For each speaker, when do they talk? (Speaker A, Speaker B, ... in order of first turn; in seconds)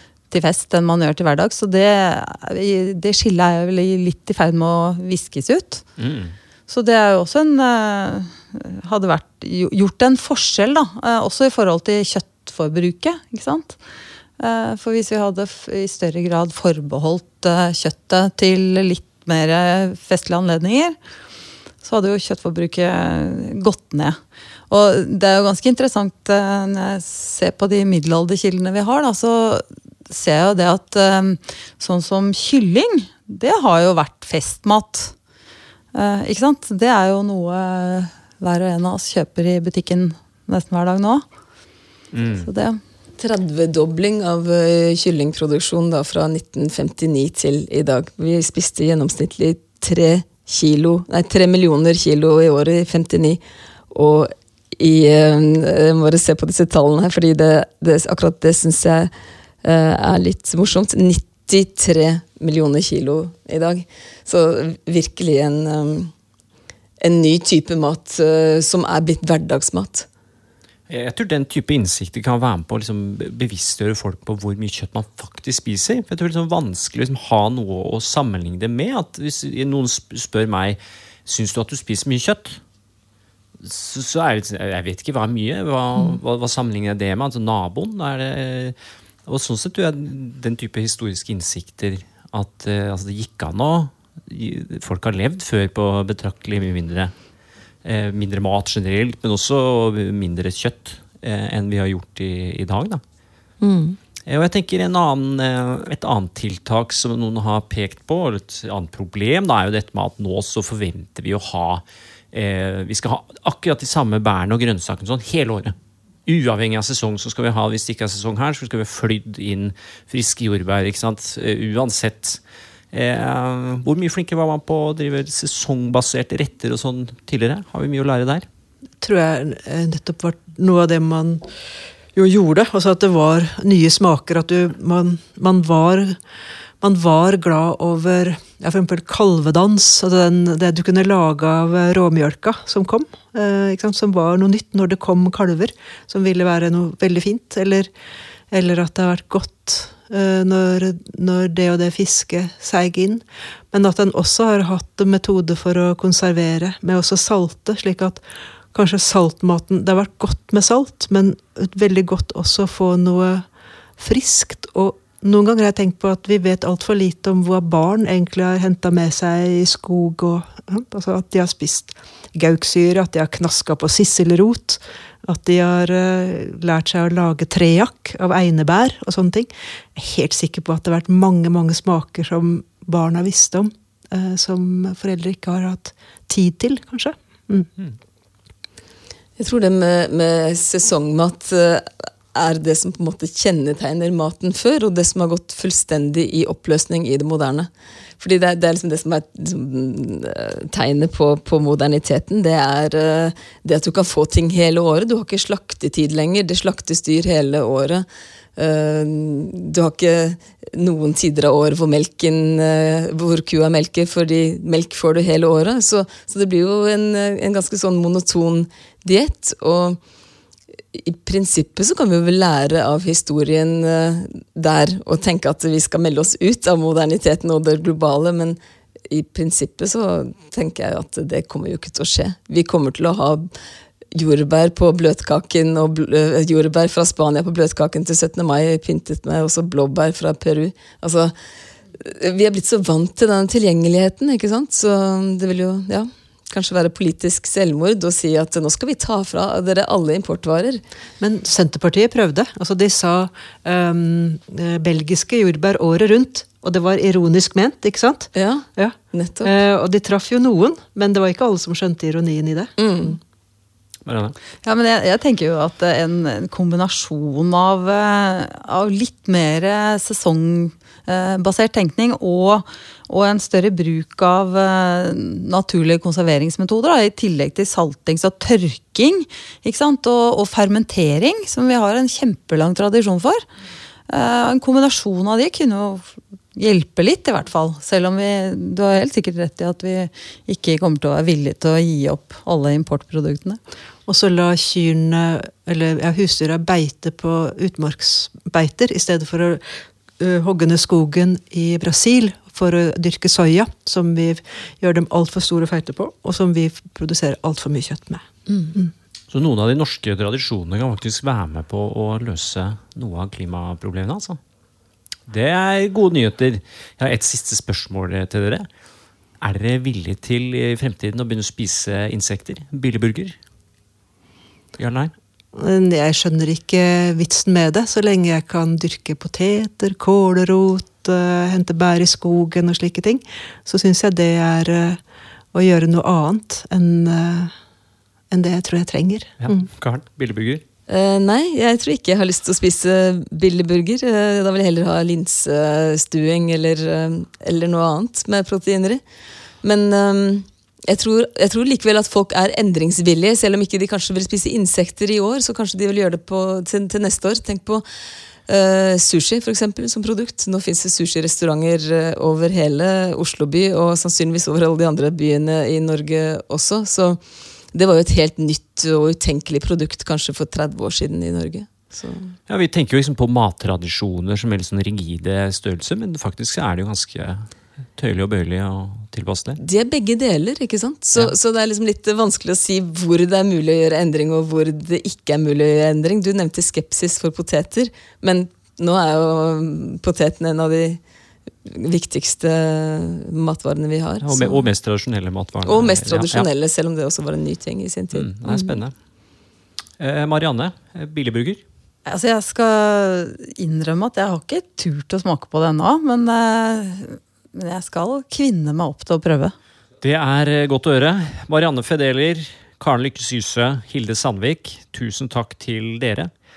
Speaker A: 0.3-5.8, 6.7-13.8, 14.4-21.0, 21.8-24.2, 24.7-35.1, 35.9-41.2, 42.4-42.8, 264.6-283.4, 284.1-293.6, 402.1-409.5
Speaker B: 6.0-6.3, 42.1-42.5, 70.9-82.6, 83.6-88.8, 89.3-97.1, 97.8-103.0, 104.3-115.8, 116.3-122.4, 122.9-128.5, 264.1-264.4, 309.3-314.4, 315.3-318.7, 319.4-323.4, 324.8-325.1, 339.4-340.6, 372.5-379.6, 394.2-396.5, 398.1-398.9, 400.0-401.6, 410.0-416.3
Speaker C: 43.2-53.4, 53.9-59.1, 59.6-66.1, 67.0-70.1, 103.6-104.0, 189.4-220.0, 220.9-233.5, 234.1-241.3, 241.9-250.8, 258.4-259.5, 262.8-263.2, 340.9-349.0, 349.6-357.9, 358.5-367.2, 367.7-372.4, 379.6-391.0, 391.7-394.7, 395.6-398.8
Speaker D: 129.0-131.5, 132.2-136.2, 136.8-147.9, 148.5-158.2, 158.7-163.5, 164.0-187.7, 251.2-262.8, 294.1-308.9, 325.6-335.0, 335.5-337.5, 338.3-339.7